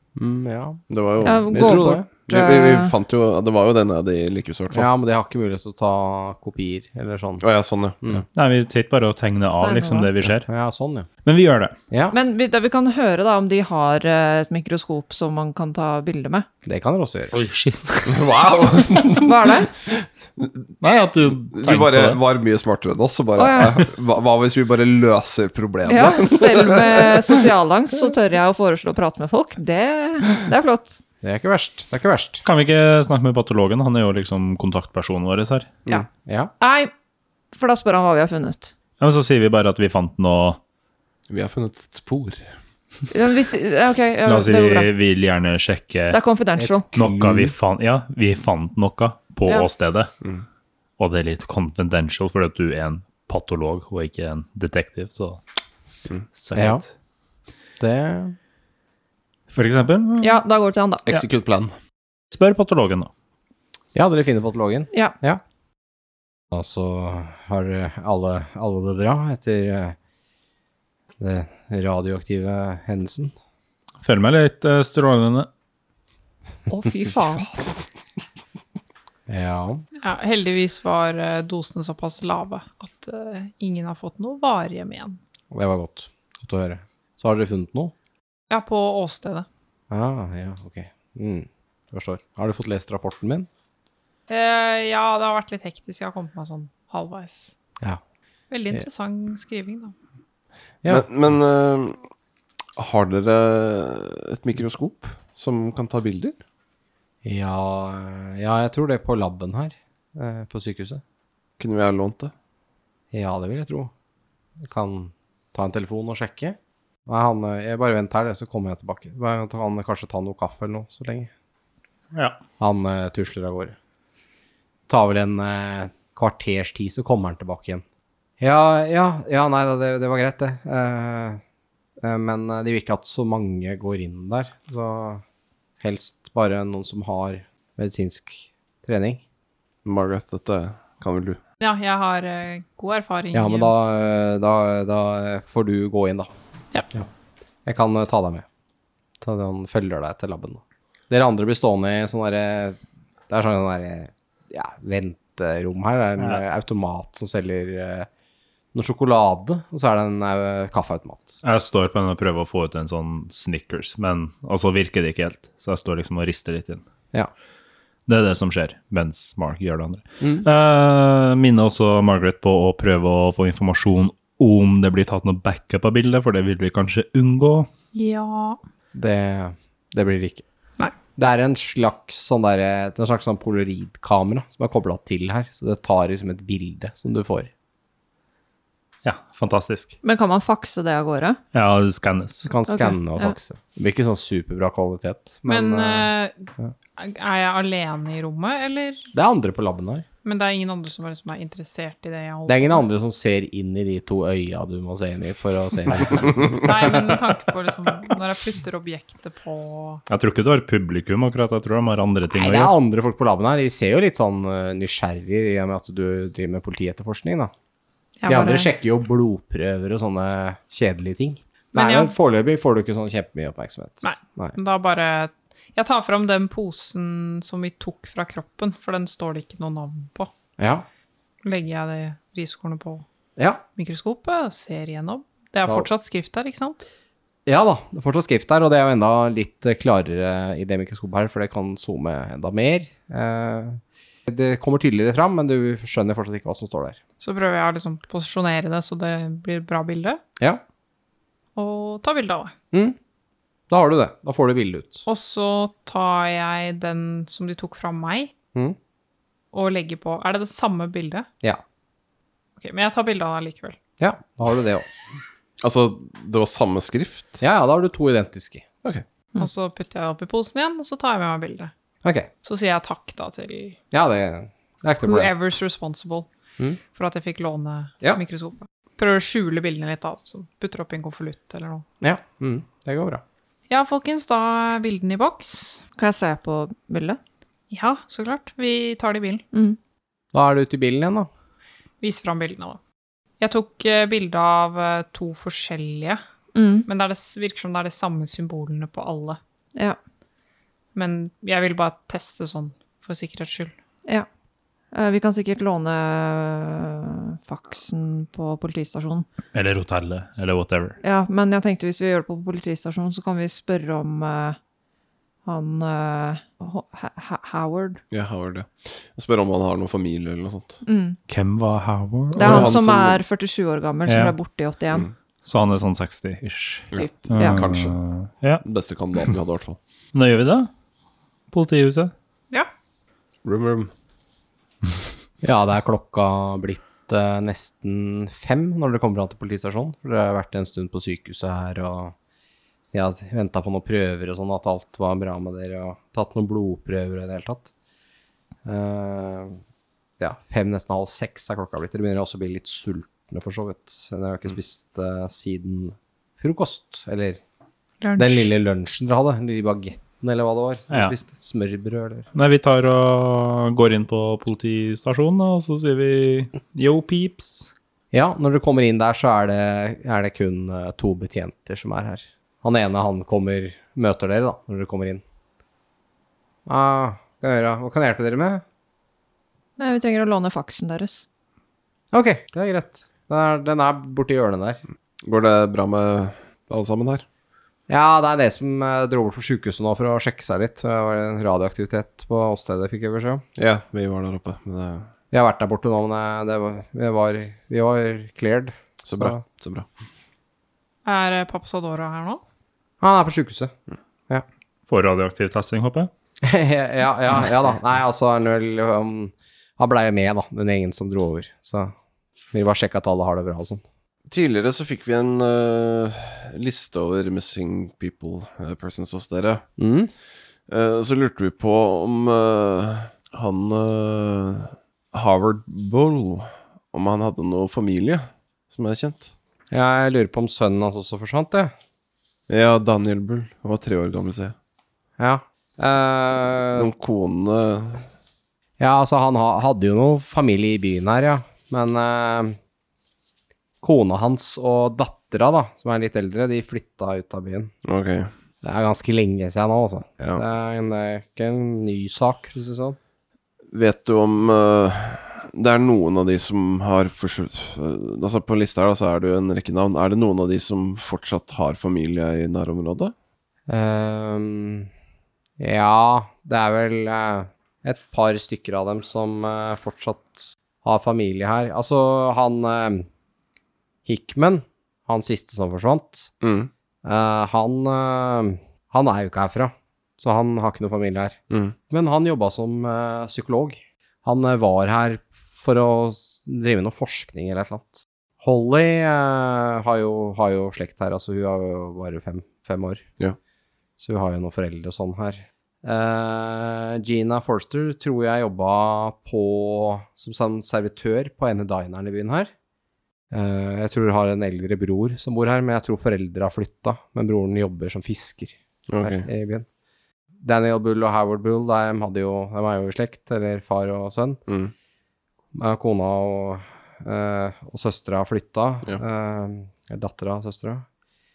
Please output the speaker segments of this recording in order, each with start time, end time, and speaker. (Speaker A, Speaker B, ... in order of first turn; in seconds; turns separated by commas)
Speaker A: 0.2-0.8, Speaker B: 0.9-4.9, Speaker C: 1.2-2.9, Speaker A: 1.5-2.1, Speaker A: 4.7-7.4, Speaker B: 7.4-8.2, Speaker D: 8.3-10.5, Speaker C: 9.6-10.1, Speaker A: 10.5-11.1, Speaker D: 11.2-11.8, Speaker C: 12.1-16.5, Speaker A: 16.7-17.3, Speaker D: 17.3-18.2, Speaker B: 18.1-27.4, Speaker C: 19.2-19.7, Speaker D: 20.8-22.2, Speaker C: 23.4-23.8, Speaker C: 25.9-31.0, Speaker A: 31.2-32.4, Speaker D: 32.4-35.8, Speaker A: 36.2-36.5, Speaker C: 36.6-36.9, Speaker C: 37.5-38.7, Speaker D: 39.0-40.6, Speaker B: 41.3-42.5, Speaker C: 43.1-44.9, Speaker D: 44.2-46.2, Speaker C: 46.1-46.9, Speaker A: 46.6-47.5, Speaker D: 46.9-50.1, Speaker D: 51.0-55.4, Speaker D: 56.3-56.9, Speaker A: 56.5-56.8, Speaker A: 57.8-58.4, Speaker D: 59.5-60.4, Speaker C: 60.2-61.1, Speaker B: 61.1-61.7, Speaker D: 62.3-63.1, Speaker A: 64.0-65.4, Speaker A: 66.5-70.0, Speaker A: 71.2-73.3, Speaker D: 74.0-75.5, Speaker C: 76.7-77.5, Speaker A: 79.3-79.8, Speaker E: 80.0-85.2, Speaker A: 85.5-87.9, Speaker E: 88.5-89.5, Speaker A: 89.9-93.5, Speaker E: 94.3-97.5, Speaker E: 98.5-99.9, Speaker B: 100.9-102.0, Speaker B: 102.8-106.4, Speaker A: 107.2-111.0, Speaker B: 111.6-112.3, Speaker A: 113.1-113.9, Speaker A: 114.6-121.3, Speaker D: 122.1-122.4, Speaker A: 122.6-123.8, Speaker A: 124.9-127.8, Speaker A: 128.4-131.4, Speaker A: 132.0-135.2, Speaker A: 135.8-139.2, Speaker B: 139.8-141.4, Speaker E: 141.6-143.7, Speaker A: 143.3-146.3, Speaker A: 147.7-148.4, Speaker A: 149.2-152.8, Speaker A: 153.3-158.1, Speaker A: 158.7-161.4, Speaker D: 161.4-166.8, Speaker D: 168.1-177.7, Speaker A: 170.2-170.5, Speaker E: 177.9-178.6, Speaker A: 178.9-180.4, Speaker A: 181.2-187.5, Speaker D: 189.0-190.0, Speaker C: 190.0-191.4, Speaker D: 191.5-192.5, Speaker A: 192.4-196.7, Speaker C: 192.7-193.3, Speaker E: 195.5-199.1, Speaker A: 199.1-200.1, Speaker E: 200.2-202.8, Speaker A: 202.5-206.7, Speaker E: 206.6-210.0, Speaker D: 210.1-212.7, Speaker A: 212.3-217.5, Speaker E: 218.2-218.7, Speaker A: 218.3-224.6, Speaker E: 221.7-222.1, Speaker E: 224.0-230.3, Speaker A: 230.6-230.9, Speaker E: 231.4-233.1, Speaker E: 233.8-236.8, Speaker A: 237.5-247.0, Speaker E: 247.2-250.2, Speaker E: 251.6-252.5, Speaker A: 253.7-255.0, Speaker E: 255.1-258.3, Speaker E: 259.5-261.3, Speaker E: 262.6-263.8, Speaker A: 264.0-264.9, Speaker B: 265.6-267.4, Speaker A: 267.4-268.6, Speaker E: 269.4-271.7, Speaker E: 272.4-273.8, Speaker A: 273.9-275.3, Speaker E: 275.0-276.3, Speaker E: 276.9-281.9, Speaker A: 282.0-283.2, Speaker E: 283.7-285.8, Speaker C: 286.0-287.2, Speaker E: 287.7-289.4, Speaker C: 289.5-289.8, Speaker A: 290.3-291.3, Speaker E: 292.0-292.8, Speaker E: 293.4-296.2, Speaker C: 296.6-296.9, Speaker E: 296.9-299.4, Speaker E: 300.9-303.7, Speaker C: 304.9-309.3, Speaker D: 309.5-311.0, Speaker C: 311.0-314.6, Speaker C: 315.4-318.0, Speaker B: 318.1-320.8, Speaker C: 320.9-321.2, Speaker D: 321.3-322.8, Speaker B: 322.4-323.2, Speaker C: 322.4-325.1, Speaker D: 324.1-324.4, Speaker D: 325.4-328.6, Speaker B: 326.9-327.9, Speaker C: 326.9-327.6, Speaker B: 328.6-329.8, Speaker D: 330.1-330.7, Speaker D: 331.5-332.1, Speaker B: 333.4-333.9, Speaker A: 335.4-342.1, Speaker A: 342.9-347.7, Speaker A: 348.6-349.6, Speaker A: 350.2-357.4, Speaker E: 358.0-358.5, Speaker A: 358.2-362.3, Speaker D: 360.9-361.1, Speaker D: 362.4-367.7, Speaker A: 368.1-375.2, Speaker A: 376.7-378.6, Speaker C: 379.8-381.2, Speaker A: 382.1-384.8, Speaker B: 385.2-387.3, Speaker A: 387.9-393.4, Speaker B: 393.6-395.1, Speaker A: 395.3-399.4, Speaker B: 399.1-399.9, Speaker E: 401.1-402.4, Speaker A: 403.0-403.7, Speaker D: 404.9-406.1, Speaker A: 406.4-411.9, Speaker A: 412.5-413.8, Speaker B: 414.3-419.6, Speaker A: 419.8-420.1, Speaker B: 420.7-429.3, Speaker A: 429.7-431.7, Speaker B: 432.5-434.6, Speaker A: 435.2-436.9, Speaker B: 436.7-438.1, Speaker A: 438.8-442.6, Speaker A: 443.8-447.7, Speaker B: 447.8-448.3, Speaker A: 448.6-453.0, Speaker B: 453.7-463.1, Speaker A: 463.7-464.9, Speaker A: 465.6-473.1, Speaker A: 474.1-476.3, Speaker B: 476.4-476.7, Speaker A: 477.0-481.4, Speaker B: 481.5-481.8, Speaker A: 481.9-493.0, Speaker A: 494.0-502.5, Speaker A: 503.3-509.7, Speaker B: 508.9-509.3, Speaker A: 510.4-514.4, Speaker B: 514.5-514.7, Speaker A: 515.5-520.9